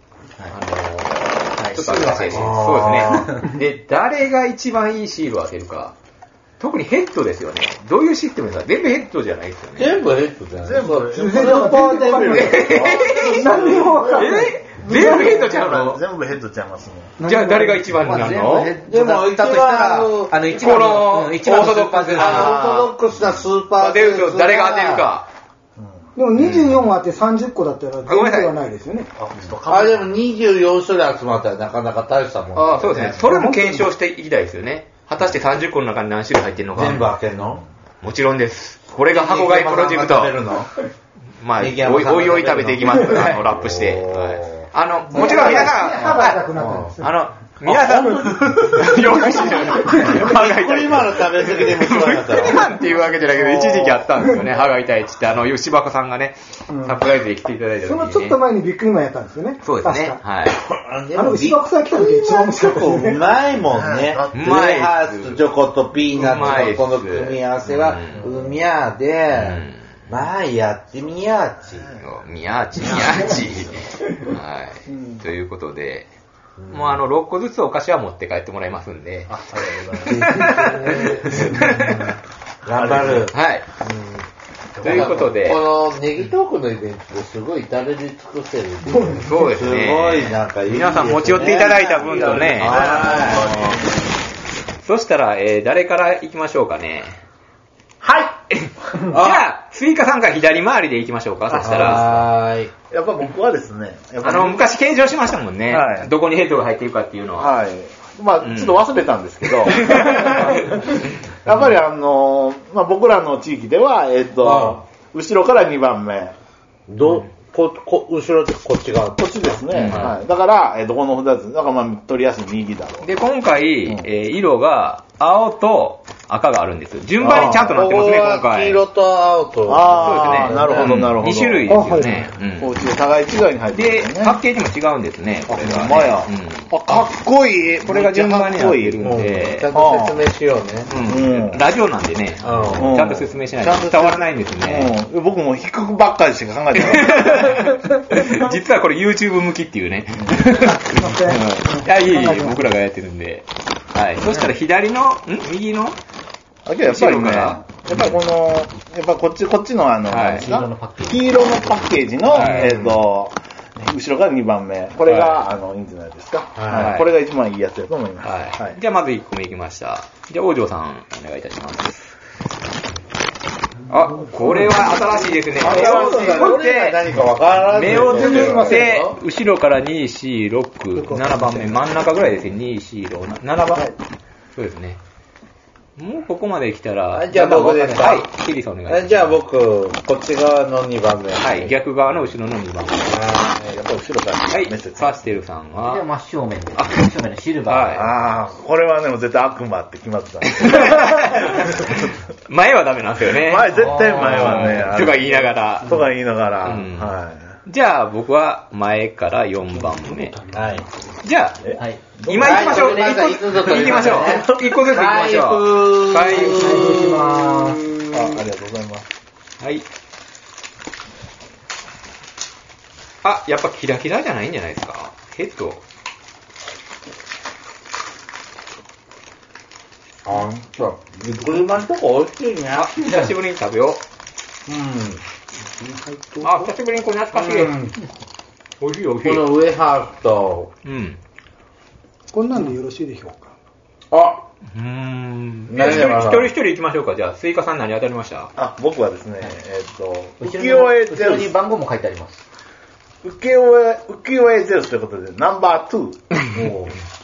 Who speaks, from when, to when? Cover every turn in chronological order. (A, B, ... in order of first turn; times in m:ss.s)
0:00.5-0:06.0 A
0:01.6-0:02.6 B
0:02.3-0:03.5 C
0:06.6-0:10.1 A
0:09.8-0:13.8 C
0:10.6-0:11.9 D
0:11.0-0:15.3 E
0:12.2-0:13.5 A
0:12.6-0:17.2 D
0:14.1-0:16.0 A
0:17.2-0:18.0 E
0:17.2-0:18.7 A
0:18.0-0:22.6 B
0:18.9-0:20.4 C
0:20.5-0:22.9 A
0:22.2-0:25.0 C
0:23.8-0:25.3 A
0:25.8-0:26.0 D
0:26.2-0:29.1 E
0:26.4-0:26.8 A
0:28.1-0:28.5 A
0:29.2-0:30.2 D
0:29.7-0:33.4 C
0:32.6-0:37.1 A
0:33.2-0:33.9 E
0:36.8-0:37.6 C
0:38.0-0:40.5 A
0:39.1-0:40.7 C
0:41.4-0:46.4 A
0:41.6-0:45.7 C
0:45.1-0:47.2 E
0:46.5-0:47.0 C
0:47.0-0:58.4 A
0:47.6-0:52.7 C
0:48.8-0:50.1 E
0:53.8-0:54.2 E
0:56.7-0:57.0 C
0:57.8-1:00.2 E
0:59.6-1:00.6 A
1:00.5-1:11.9 C
1:01.1-1:03.3 E
1:03.7-1:04.7 D
1:04.3-1:05.4 A
1:06.1-1:08.3 A
1:08.1-1:08.6 D
1:09.3-1:09.8 A
1:11.7-1:12.0 D
1:12.0-1:16.1 A
1:14.9-1:15.2 D
1:16.6-1:17.0 C
1:16.7-1:22.2 A
1:19.3-1:20.6 D
1:20.0-1:21.9 C
1:21.8-1:22.0 E
1:22.6-1:24.2 C
1:22.7-1:23.3 D
1:23.0-1:23.6 A
1:24.8-1:25.3 D
1:24.8-1:33.7 C
1:24.8-1:25.7 A
1:28.8-1:29.4 E
1:29.2-1:33.5 A
1:31.4-1:34.0 D
1:34.8-1:37.2 A
1:38.5-1:42.2 A
1:39.1-1:39.4 C
1:41.5-1:42.2 D
1:41.5-1:42.7 C
1:42.9-1:44.7 D
1:44.2-1:47.5 A
1:45.7-1:46.1 D
1:47.4-1:56.4 D
1:48.4-1:48.9 A
1:49.6-1:51.0 A
1:54.4-1:54.8 C
1:56.9-1:59.2 C
1:59.2-2:03.1 D
1:59.7-2:00.2 A
2:03.0-2:08.8 A
2:07.2-2:11.2 C
2:07.2-2:07.8 D
2:09.7-2:11.9 D
2:10.0-2:12.7 A
2:11.7-2:12.3 E
2:12.6-2:14.4 D
2:13.7-2:17.0 A
2:15.5-2:19.1 D
2:17.8-2:19.7 A
2:19.0-2:20.9 C
2:19.7-2:20.2 D
2:20.9-2:24.9 A
2:21.0-2:21.6 D
2:22.4-2:23.0 C
2:22.8-2:27.7 D
2:26.8-2:36.0 A
2:30.5-2:32.7 E
2:36.7-2:48.8 D
2:36.8-2:38.2 A
2:40.1-2:40.6 A
2:40.4-2:42.7 B
2:42.3-2:42.9 A
2:45.0-2:45.4 A
2:46.6-2:47.0 C
2:46.7-2:47.1 A
2:48.2-2:52.1 A
2:53.9-2:57.0 A
2:54.0-2:54.9 E
2:55.6-2:59.2 C
2:55.6-2:56.6 D
2:57.7-3:03.9 A
2:57.9-2:58.9 E
3:01.0-3:01.8 E
3:04.6-3:05.0 A
3:06.0-3:09.4 A
3:07.1-3:08.3 C
3:08.9-3:11.7 C
3:11.4-3:13.3 A
3:13.0-3:13.8 C
3:13.7-3:15.2 D
3:14.5-3:16.0 A
3:15.8-3:18.3 B
3:17.7-3:18.1 A
3:17.9-3:22.1 D
3:20.5-3:26.0 A
3:23.4-3:27.6 D
3:23.8-3:25.0 B
3:26.6-3:30.4 A
3:30.1-3:30.5 E
3:30.5-3:30.9 C
3:31.2-3:31.7 A
3:31.6-3:32.9 D
3:31.8-3:32.0 B
3:32.2-3:37.1 A
3:32.3-3:38.4 C
3:33.9-3:34.2 B
3:34.3-3:34.8 D
3:36.3-3:37.8 B
3:38.1-3:39.1 D
3:39.6-3:39.8 A
3:43.2-3:45.8 A
3:50.2-3:53.2 C
3:52.7-3:54.0 A
3:54.7-3:55.2 C
3:55.8-3:56.7 E
3:56.4-3:57.9 A
3:57.3-3:58.0 C
3:58.8-3:59.5 A
3:59.2-4:00.7 C
4:00.8-4:01.2 A
4:02.3-4:03.5 E
4:04.1-4:04.4 C
4:04.7-4:08.5 A
4:05.7-4:06.5 C
4:08.6-4:11.6 D
4:10.4-4:12.4 B
4:13.2-4:16.3 D
4:16.5-4:17.0 C